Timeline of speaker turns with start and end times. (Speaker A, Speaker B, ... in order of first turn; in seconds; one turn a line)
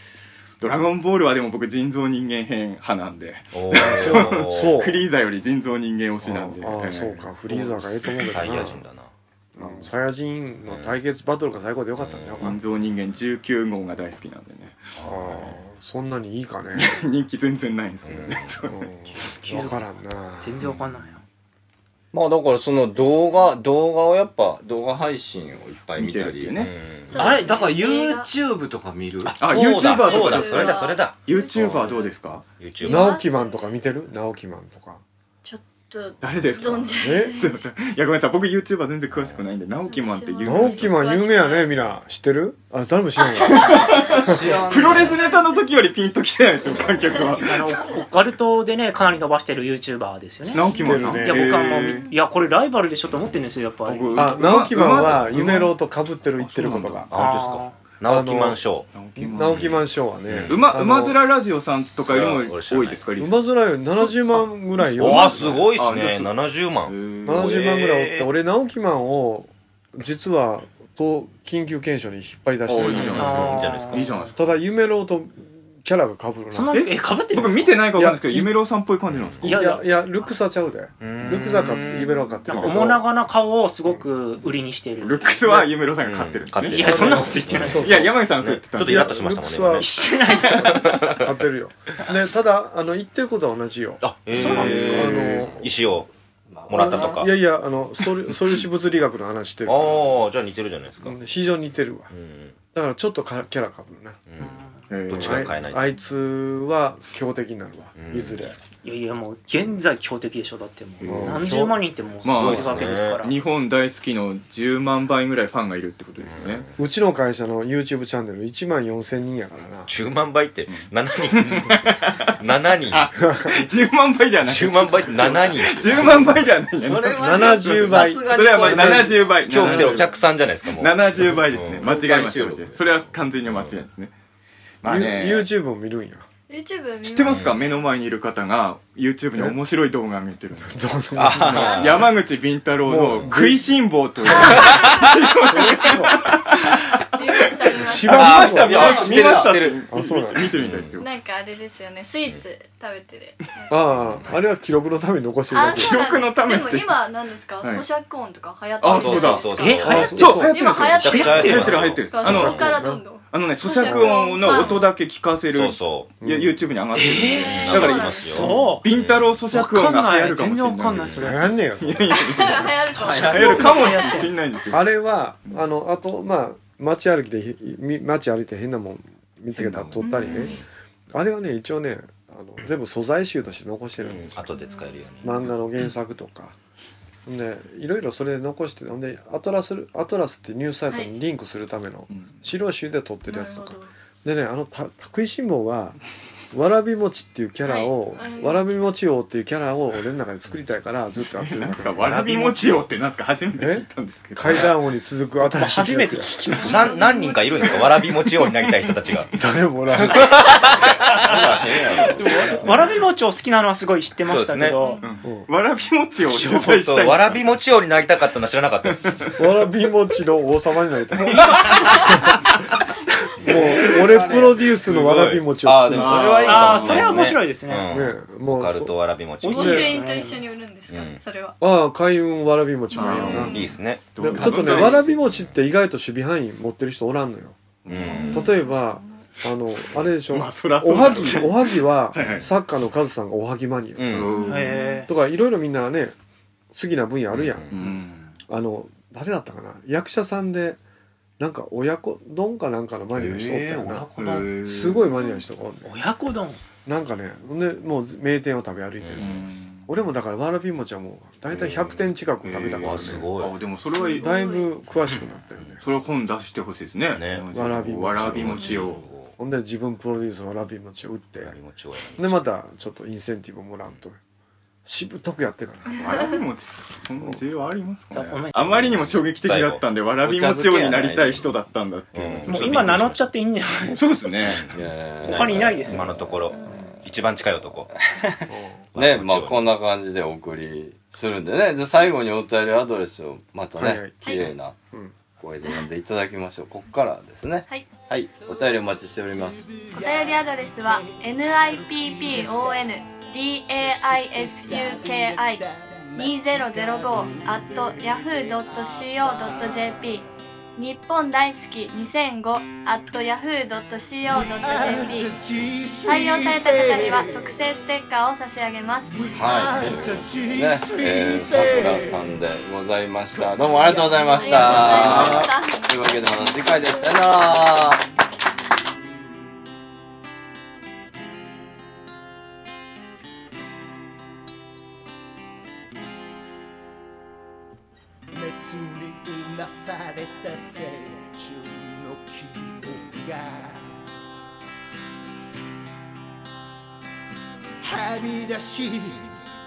Speaker A: 0.6-8.2
Speaker B: 3.5-4.8
Speaker C: 3.7-5.1
Speaker C: 6.2-8.8
Speaker B: 6.9-9.1
Speaker C: 9.6-12.6
Speaker B: 10.7-11.0
Speaker B: 12.0-12.6
Speaker A: 12.4-15.5
Speaker B: 15.0-15.5
Speaker C: 15.1-17.0
Speaker A: 16.8-18.8
Speaker B: 18.1-18.5
Speaker C: 18.7-20.6
Speaker D: 19.4-19.8
Speaker D: 20.4-21.2
Speaker B: 20.6-20.9
Speaker E: 22.1-26.6
Speaker F: 23.1-23.5
Speaker A: 26.0-26.7
Speaker B: 26.6-27.4
Speaker F: 27.1-28.3
Speaker E: 27.1-29.4
Speaker B: 29.3-31.2
Speaker A: 29.4-32.5
Speaker F: 29.6-32.2
Speaker B: 32.6-33.2
Speaker F: 32.8-33.8
Speaker C: 32.9-35.0
Speaker F: 35.4-37.6
Speaker A: 36.2-41.0
Speaker C: 37.0-37.4
Speaker F: 39.8-41.7
Speaker C: 40.5-44.6
Speaker F: 43.2-44.3
Speaker A: 43.4-47.6
Speaker E: 44.3-45.2
Speaker F: 45.0-45.7
Speaker F: 46.7-47.3
Speaker D: 47.4-54.6
Speaker A: 50.5-52.1
Speaker C: 50.5-51.9
Speaker A: 53.9-55.8
Speaker C: 54.2-57.1
Speaker A: 56.4-57.1
Speaker B: 57.1-58.9
Speaker D: 57.1-57.7
Speaker C: 58.0-61.2
Speaker A: 58.9-59.8
Speaker B: 59.5-60.6
Speaker A: 60.5-63.4
Speaker B: 62.0-63.0
Speaker C: 63.2-65.6
Speaker A: 65.0-66.3
Speaker B: 65.0-68.3
Speaker A: 66.9-67.8
Speaker C: 67.3-73.8
Speaker A: 72.7-74.3
Speaker B: 72.8-74.1
Speaker D: 73.2-74.3
Speaker C: 74.3-76.8
Speaker D: 76.5-78.0
Speaker A: 76.7-79.4
Speaker C: 78.0-78.5
Speaker B: 79.1-79.5
Speaker C: 79.4-83.1
Speaker D: 79.4-79.8
Speaker B: 81.0-82.7
Speaker D: 82.5-85.2
Speaker A: 85.0-89.2
Speaker C: 85.4-85.7
Speaker B: 86.0-91.4
Speaker D: 86.6-88.1
Speaker C: 86.8-95.8
Speaker D: 89.8-91.0
Speaker B: 94.0-96.1
Speaker D: 94.3-95.3
Speaker E: 96.5-97.2
Speaker B: 96.7-97.3
Speaker C: 96.7-100.2
Speaker A: 98.4-98.7
Speaker B: 99.7-101.2
Speaker C: 101.0-102.1
Speaker B: 102.1-102.6
Speaker C: 102.7-104.2
Speaker B: 104.3-106.0
Speaker D: 104.4-104.8
Speaker A: 104.9-105.5
Speaker C: 105.1-108.6
Speaker B: 108.0-108.5
Speaker D: 108.8-113.3
Speaker C: 111.0-111.8
Speaker A: 112.2-116.7
Speaker B: 112.2-113.2
Speaker B: 116.2-116.8
Speaker C: 116.8-119.9
Speaker B: 119.9-121.8
Speaker A: 120.7-122.4
Speaker B: 122.4-123.1
Speaker A: 122.9-130.1
Speaker C: 123.2-123.5
Speaker B: 124.4-126.3
Speaker E: 126.7-129.7
Speaker C: 127.2-130.0
Speaker B: 129.5-131.9
Speaker A: 130.7-134.1
Speaker E: 131.8-132.8
Speaker B: 133.5-133.7
Speaker A: 134.8-135.5
Speaker C: 134.8-136.3
Speaker F: 136.5-137.9
Speaker A: 137.0-140.8
Speaker B: 137.3-137.6
Speaker C: 140.7-142.1
Speaker B: 141.2-142.1
Speaker A: 141.6-146.8
Speaker C: 142.8-144.7
Speaker F: 144.5-145.0
Speaker C: 145.5-146.1
Speaker F: 147.1-148.3
Speaker A: 147.8-151.1
Speaker C: 147.8-149.3
Speaker B: 148.1-149.6
Speaker E: 148.1-149.8
Speaker C: 149.9-150.5
Speaker B: 150.6-151.0
Speaker F: 151.0-153.7
Speaker C: 153.7-156.0
Speaker F: 155.5-164.9
Speaker A: 155.7-157.0
Speaker A: 158.8-174.9
Speaker B: 158.9-160.3
Speaker D: 159.6-160.4
Speaker C: 159.8-160.5
Speaker B: 161.0-162.3
Speaker D: 161.2-161.8
Speaker C: 162.2-163.0
Speaker C: 163.8-164.2
Speaker B: 165.5-166.1
Speaker C: 166.2-166.6
Speaker D: 166.9-167.7
Speaker B: 167.4-169.3
Speaker F: 167.4-168.5
Speaker D: 168.3-168.9
Speaker D: 169.5-171.5
Speaker C: 171.2-172.3
Speaker F: 172.3-174.3
Speaker D: 172.9-174.2
Speaker E: 173.5-174.1
Speaker C: 174.7-184.4
Speaker A: 179.6-180.3
Speaker F: 180.0-180.6
Speaker B: 184.0-185.4
Speaker F: 184.5-185.1
Speaker C: 185.2-186.6
Speaker C: 187.3-196.0
Speaker A: 192.1-192.4
Speaker F: 193.3-193.9
Speaker C: 196.5-202.0
Speaker F: 197.6-198.9
Speaker A: 201.3-204.8
Speaker B: 202.0-202.9
Speaker C: 203.6-206.9
Speaker D: 205.5-206.4
Speaker F: 206.5-207.8
Speaker B: 206.6-209.3
Speaker C: 209.3-210.6
Speaker B: 209.9-212.9
Speaker E: 211.2-212.4
Speaker D: 212.2-215.0
Speaker B: 214.3-214.8
Speaker F: 214.8-215.1
Speaker A: 215.1-217.5
Speaker B: 216.3-219.2
Speaker C: 219.4-222.3
Speaker A: 221.3-221.8
Speaker C: 223.4-227.2
Speaker E: 224.1-224.6
Speaker A: 224.8-225.1
Speaker B: 224.8-230.0
Speaker A: 225.9-227.0
Speaker D: 226.4-227.9
Speaker C: 227.9-229.0
Speaker D: 229.4-230.4
Speaker F: 229.5-231.6
Speaker C: 229.6-229.9
Speaker B: 230.9-231.2
Speaker C: 231.6-233.7
Speaker F: 232.9-233.7
Speaker A: 232.9-233.6
Speaker B: 233.3-235.6
Speaker A: 234.1-235.2
Speaker C: 234.2-237.6
Speaker A: 237.8-238.5
Speaker B: 237.9-238.5
Speaker F: 238.1-239.2
Speaker C: 238.3-244.4
Speaker A: 240.3-242.5
Speaker B: 244.0-244.4
Speaker A: 244.1-244.6
Speaker F: 244.4-245.0
Speaker D: 244.5-245.1
Speaker C: 245.1-246.2
Speaker C: 246.7-250.8
Speaker B: 247.3-247.8
Speaker A: 247.7-248.4
Speaker C: 251.4-255.9
Speaker B: 253.2-254.0
Speaker A: 254.1-255.2
Speaker D: 255.8-256.6
Speaker C: 256.9-263.3
Speaker B: 259.0-259.4
Speaker A: 259.2-259.9
Speaker B: 261.5-262.1
Speaker A: 262.4-264.3
Speaker B: 262.8-263.6
Speaker F: 264.0-264.7
Speaker C: 264.2-265.8
Speaker A: 265.8-269.0
Speaker B: 267.1-267.5
Speaker C: 267.5-268.7
Speaker B: 268.2-269.4
Speaker C: 269.4-271.6
Speaker B: 271.4-272.5
Speaker C: 272.2-274.2
Speaker C: 274.9-276.0
Speaker A: 276.0-282.8
Speaker D: 278.1-279.1
Speaker B: 278.8-279.8
Speaker E: 280.2-281.6
Speaker B: 282.1-283.2
Speaker D: 282.5-284.5
Speaker A: 283.9-284.7
Speaker B: 284.5-287.9
Speaker E: 284.7-286.5
Speaker D: 285.2-286.1
Speaker F: 286.5-286.9
Speaker E: 287.9-294.8
Speaker C: 288.5-288.9
Speaker B: 288.9-289.7
Speaker C: 293.8-295.1
Speaker F: 294.2-294.5
Speaker E: 295.4-299.7
Speaker G: 298.4-310.2
Speaker F: 299.9-305.6
Speaker F: 306.2-310.2
Speaker F: 310.8-315.4
Speaker G: 314.3-317.6
Speaker F: 316.0-319.1
Speaker G: 319.1-322.4
Speaker E: 319.4-328.0
Speaker G: 323.3-325.1
Speaker F: 324.4-325.9
Speaker A: 324.6-325.5
Speaker G: 338.3-344.0
Speaker G: 347.8-349.3